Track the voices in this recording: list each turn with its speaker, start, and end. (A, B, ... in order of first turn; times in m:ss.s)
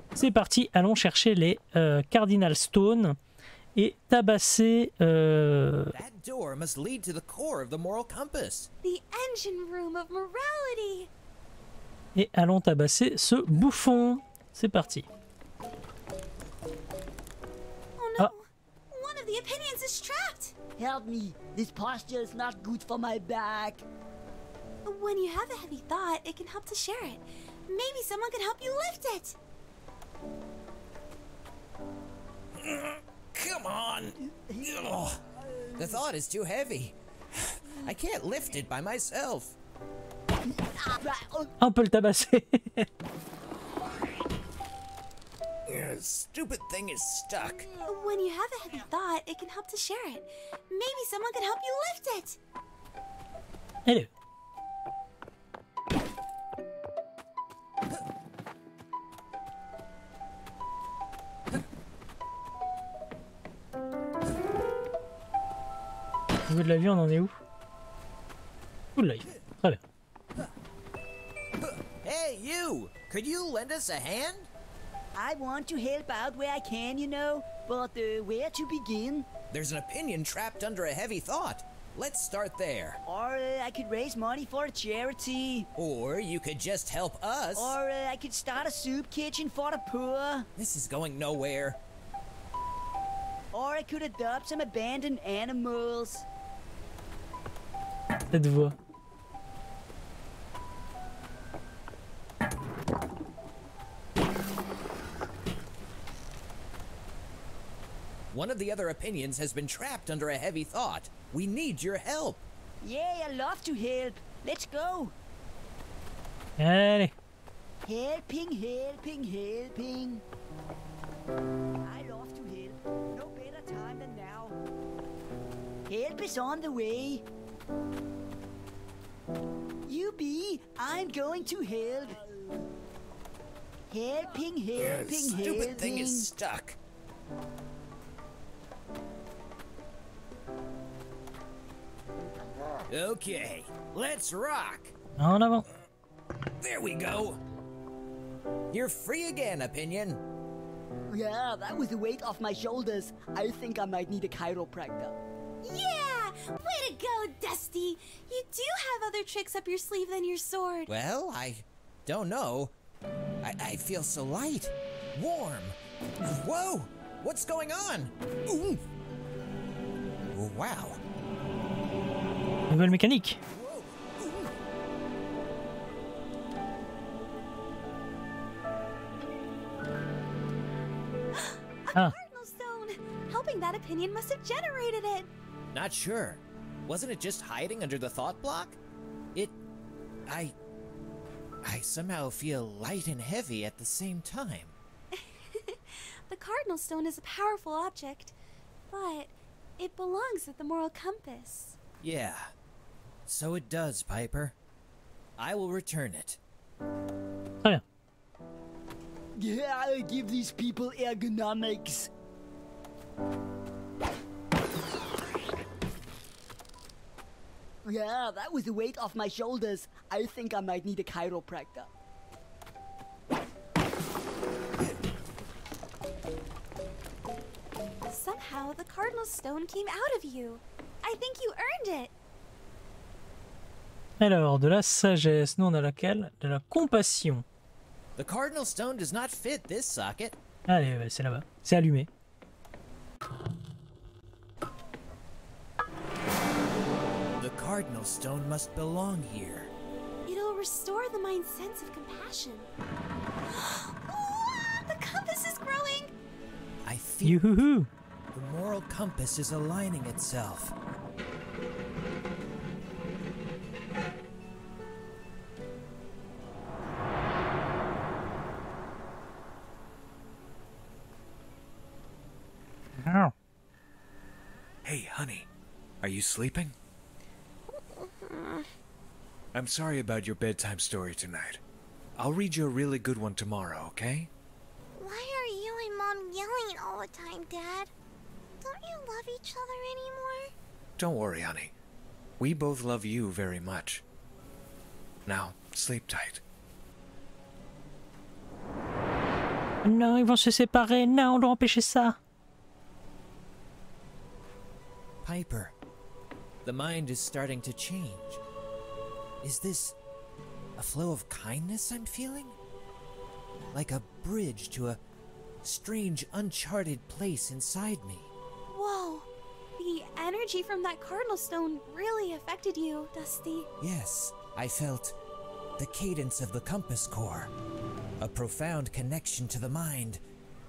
0:00.2-0:03.2 A
0:03.8-0:05.9 A
0:05.9-0:08.7 B
0:08.8-0:11.1 C
0:12.1-0:15.0 A
0:18.0-0:20.5 C
0:20.8-0:23.8 D
0:24.8-0:29.4 C
0:32.6-0:35.2 B
0:35.8-0:39.6 B
0:40.4-0:41.5 D
0:41.6-0:42.9 A
0:45.7-0:47.7 B
0:47.8-0:52.4 C
1:06.5-1:07.3 A
1:09.0-1:09.8 A
1:12.0-1:14.5 B
1:15.1-1:19.3 D
1:19.5-1:23.0 B
1:23.0-1:25.7 D
1:25.8-1:27.8 B
1:27.5-1:30.5 D
1:30.6-1:31.8 B
1:33.5-1:36.2 D
1:38.3-1:38.8 A
1:48.3-1:52.4 B
1:52.8-1:55.1 D
1:56.6-1:57.1 A
1:57.8-2:00.2 D
2:01.8-2:04.6 D
2:05.9-2:07.2 D
2:09.8-2:12.2 D
2:13.9-2:16.3 D
2:14.8-2:16.8 B
2:22.9-2:24.9 B
2:25.2-2:25.6 A
2:26.6-2:27.4 B
2:28.7-2:30.2 B
2:31.1-2:35.2 D
2:35.6-2:40.9 C
2:40.9-2:42.7 B
2:43.4-2:48.8 B
2:50.3-2:51.0 B
2:52.7-2:53.4 A
2:53.5-2:54.4 B
3:01.3-3:05.3 C
3:05.7-3:08.8 B
3:10.3-3:10.5 B
3:11.6-3:14.8 B
3:15.1-3:18.3 C
3:18.9-3:21.8 C
3:22.0-3:22.5 B
3:23.2-3:24.5 B
3:25.4-3:26.4 B
3:29.4-3:32.1 D
3:37.8-3:41.9 D
3:48.0-3:52.1 C
3:54.2-3:57.4 A
3:58.2-4:00.4 B
4:00.7-4:02.1 A
4:07.4-4:09.7 B
4:10.2-4:12.7 C
4:13.5-4:16.1 C
4:16.8-4:17.4 B
4:17.2-4:17.9 A
4:18.3-4:20.7 B
4:33.0-4:33.3 A
4:34.8-4:35.5 E
4:36.0-4:36.7 E
4:37.7-4:38.6 F
4:39.5-4:41.6 E
4:42.2-4:44.3 E
4:45.0-4:47.9 F
4:48.6-4:50.5 F
4:51.0-4:51.7 E
4:52.4-4:54.0 E
4:55.2-4:56.4 E
4:59.8-5:02.2 A
5:05.2-5:05.7 B
5:06.6-5:08.4 B
5:09.4-5:10.0 B
5:10.8-5:12.6 B
5:13.7-5:15.0 B
5:15.6-5:18.3 B
5:18.7-5:23.7 C
5:23.8-5:25.2 B
5:25.8-5:27.5 B
5:28.2-5:30.2 B